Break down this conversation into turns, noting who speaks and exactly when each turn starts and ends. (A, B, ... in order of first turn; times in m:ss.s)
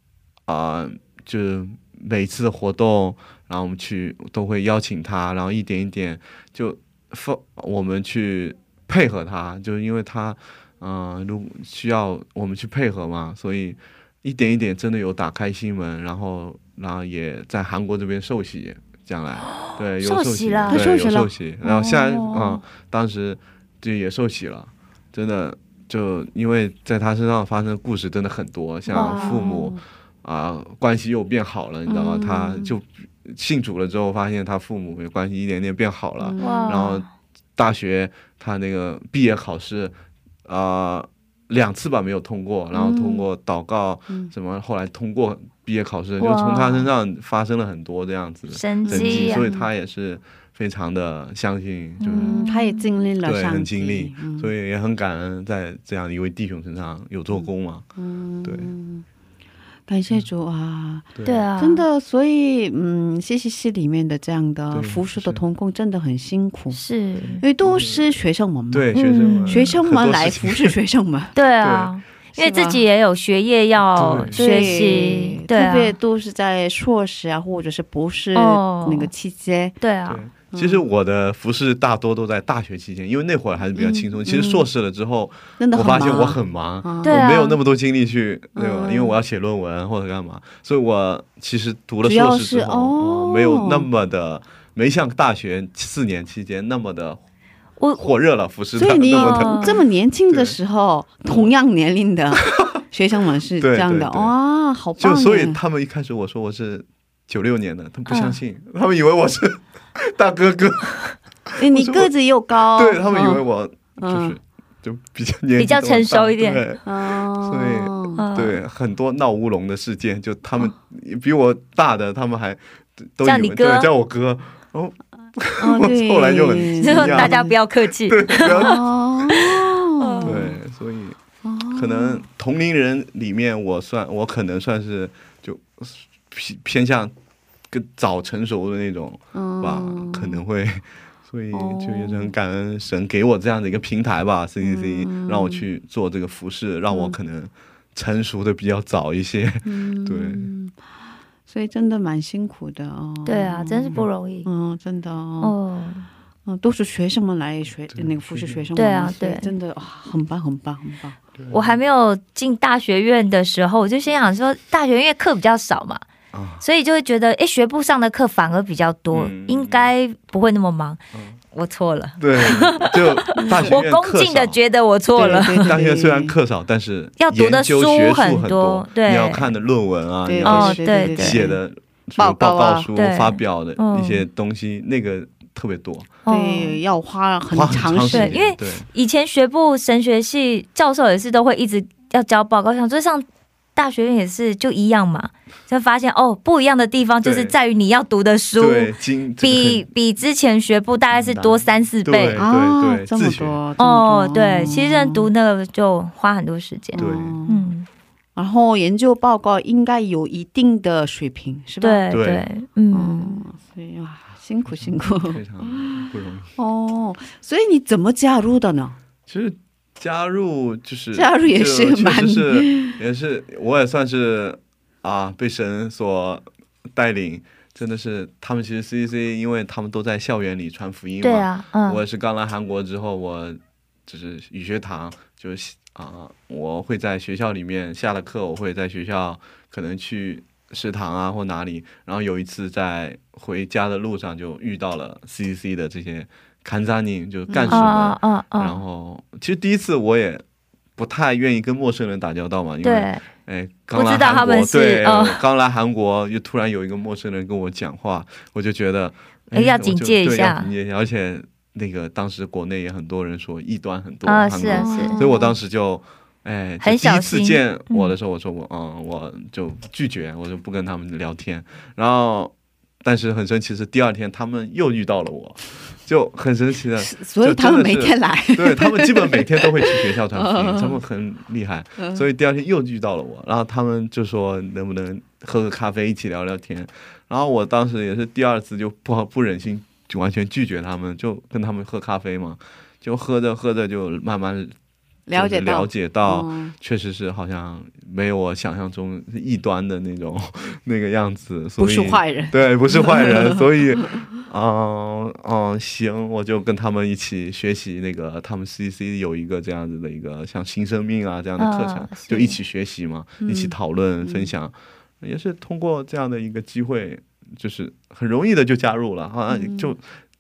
0:00.5-0:37.1 A
0:19.7-0:20.8 B
0:20.7-0:22.6 C
0:28.9-0:29.8 C
0:28.9-0:29.6 B
0:31.9-0:32.7 C
0:36.2-0:36.9 C
0:36.4-0:37.0 B
0:37.6-0:39.9 A
0:40.5-0:52.4 A
0:42.9-0:43.2 C
0:46.2-0:46.9 B
0:48.5-0:49.5 B
0:48.8-0:49.7 C
0:52.0-0:52.9 B
0:52.1-0:54.5 C
0:53.2-0:57.9 A
0:57.3-0:59.0 C
0:58.4-0:58.7 A
0:59.9-1:06.8 C
1:01.2-1:01.4 A
1:01.2-1:01.8 B
1:04.7-1:05.4 A
1:06.7-1:07.4 B
1:07.2-1:08.1 A
1:07.4-1:11.4 C
1:08.7-1:10.8 A
1:09.0-1:09.6 B
1:11.4-1:16.0 B
1:11.6-1:11.9 A
1:12.4-1:12.8 C
1:14.0-1:15.0 A
1:14.3-1:19.8 C
1:18.4-1:19.1 B
1:19.8-1:20.2 B
1:20.1-1:37.2 A
1:20.5-1:20.8 C
1:23.8-1:24.6 C
1:25.6-1:27.2 C
1:27.0-1:27.6 B
1:28.6-1:29.1 C
1:32.0-1:33.9 C
1:38.0-1:39.7 A
1:38.8-1:45.6 C
1:39.1-1:39.8 B
1:40.3-1:40.6 A
1:43.6-1:44.3 A
1:45.0-1:52.1 A
1:48.1-1:48.3 B
1:51.6-1:53.4 C
1:52.7-2:02.6 A
1:54.0-1:54.4 C
1:55.6-1:56.6 B
1:56.8-1:58.2 C
1:58.2-1:58.6 B
2:03.2-2:07.4 A
2:03.2-2:03.9 B
2:05.6-2:07.6 C
2:06.8-2:08.8 B
2:08.1-2:08.8 A
2:08.4-2:10.6 C
2:10.0-2:10.4 B
2:10.2-2:11.2 A
2:11.4-2:12.2 C
2:11.7-2:17.1 A
2:17.7-2:30.5 A
2:19.3-2:20.4 C
2:21.5-2:22.3 C
2:24.6-2:25.6 C
2:26.9-2:27.2 C
2:29.6-2:30.7 C
2:31.5-2:35.5 C
2:33.2-2:34.5 B
2:35.4-2:36.1 B
2:36.5-2:41.2 C
2:37.9-2:38.7 A
2:38.8-2:39.5 B
2:41.4-2:41.8 A
2:41.5-2:46.0 B
2:46.3-2:46.6 A
2:46.6-2:51.0 B
2:49.1-2:49.9 A
2:51.5-2:55.7 B
2:52.2-2:54.6 A
2:53.4-2:53.8 C
2:55.2-2:56.4 C
2:55.2-3:06.2 A
2:57.2-2:59.5 B
3:00.2-3:01.6 C
3:00.4-3:01.4 B
3:02.2-3:02.9 C
3:03.0-3:04.2 B
3:06.2-3:06.8 B
3:06.3-3:08.4 C
3:07.5-3:08.9 A
3:08.1-3:13.2 B
3:13.8-3:22.4 B
3:17.2-3:17.6 A
3:18.6-3:19.9 A
3:21.1-3:23.6 A
3:22.4-3:25.3 C
3:23.8-3:27.9 B
3:26.9-3:27.7 C
3:27.0-3:27.4 A
3:28.4-3:32.0 C
3:31.8-3:33.4 B
3:32.1-3:32.5 A
3:32.9-3:39.0 C
3:34.7-3:36.5 A
3:39.3-4:10.4 A
3:41.1-3:43.0 C
3:51.2-3:52.0 B
4:07.5-4:07.9 C
4:07.7-4:08.8 B
4:11.0-4:54.7 A
4:12.8-4:13.2 B
4:13.9-4:15.4 B
4:19.5-4:20.7 B
4:24.2-4:25.2 B
4:24.7-4:25.6 C
4:26.8-4:28.1 B
4:37.0-4:41.0 C
4:42.0-4:42.3 C
4:55.3-4:56.7 C
4:55.3-5:20.0 A
5:01.8-5:04.2 C
5:11.6-5:12.6 B
5:13.4-5:14.5 C
5:19.5-5:19.9 C